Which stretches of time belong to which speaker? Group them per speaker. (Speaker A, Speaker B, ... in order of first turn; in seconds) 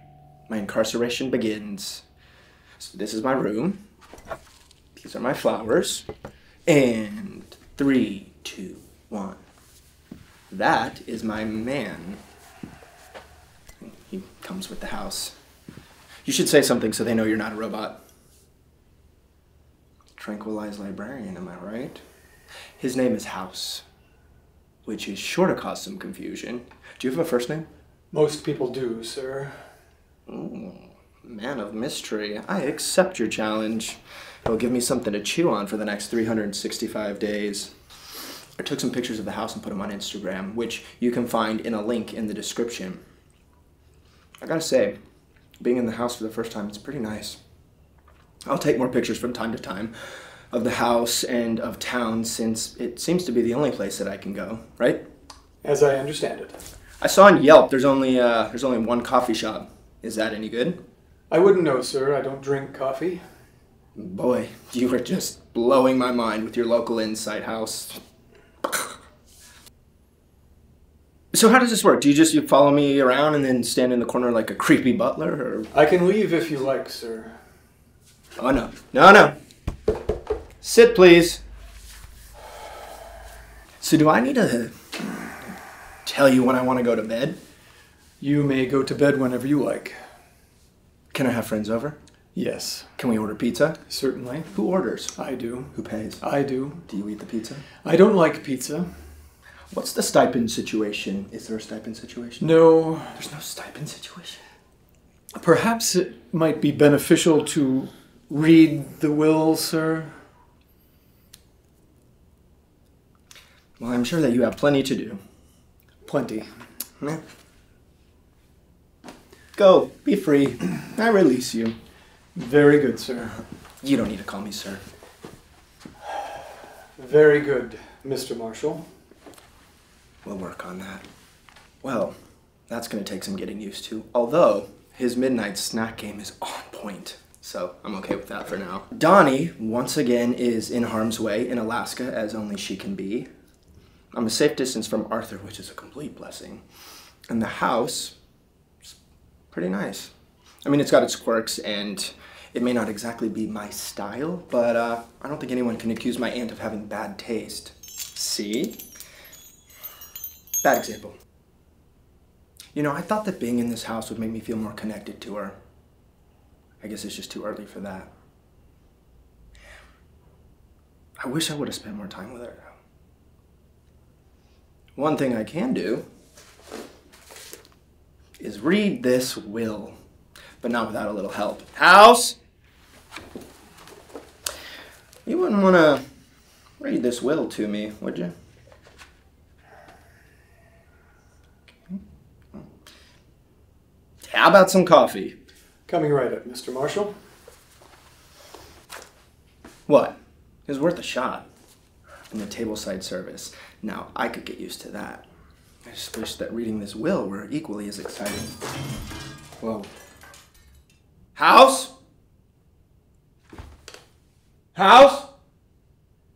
Speaker A: 0.5-2.0, 2.8-3.8, 5.0-6.1, 6.7-9.4, 10.5-12.2, 13.8-15.3, 16.2-18.0, 20.2-22.0, 22.8-23.8, 24.9-27.7, 30.3-37.7, 38.6-43.0, 44.4-45.0, 45.6-47.4, 48.5-49.9, 50.5-55.0, 57.0-60.8, 64.0-68.0, 71.3-75.7, 78.4-79.4, 80.6-81.4, 83.8-85.4, 86.0-87.4, 91.1-92.0, 93.0-93.8, 94.5-95.2, 95.7-96.2, 96.9-97.7, 99.7-102.5, 103.1-104.4, 113.8-115.2, 119.6-121.8, 123.8-124.8, 130.2-131.1, 131.8-132.2, 132.7-143.3, 144.1-146.6, 147.3-148.2, 149.5-150.1, 150.7-158.8, 160.6-161.2, 162.7-165.6, 166.8-168.1, 171.2-172.7, 175.0-176.1, 178.4-180.0, 180.6-182.4, 185.3-186.0, 186.8-188.3, 194.2-195.4, 199.9-200.2, 200.7-201.5, 202.3-205.3, 205.9-208.5, 209.6-209.9, 211.3-211.9, 214.8-215.3
Speaker B: 28.1-29.6, 55.6-56.6, 61.3-63.2, 75.7-77.4, 88.2-90.0, 92.3-92.9, 93.9-94.5, 95.2-96.8, 97.8-99.0, 102.4-103.2, 105.4-110.2, 116.1-116.5, 122.3-123.4, 127.0-128.8, 195.9-197.2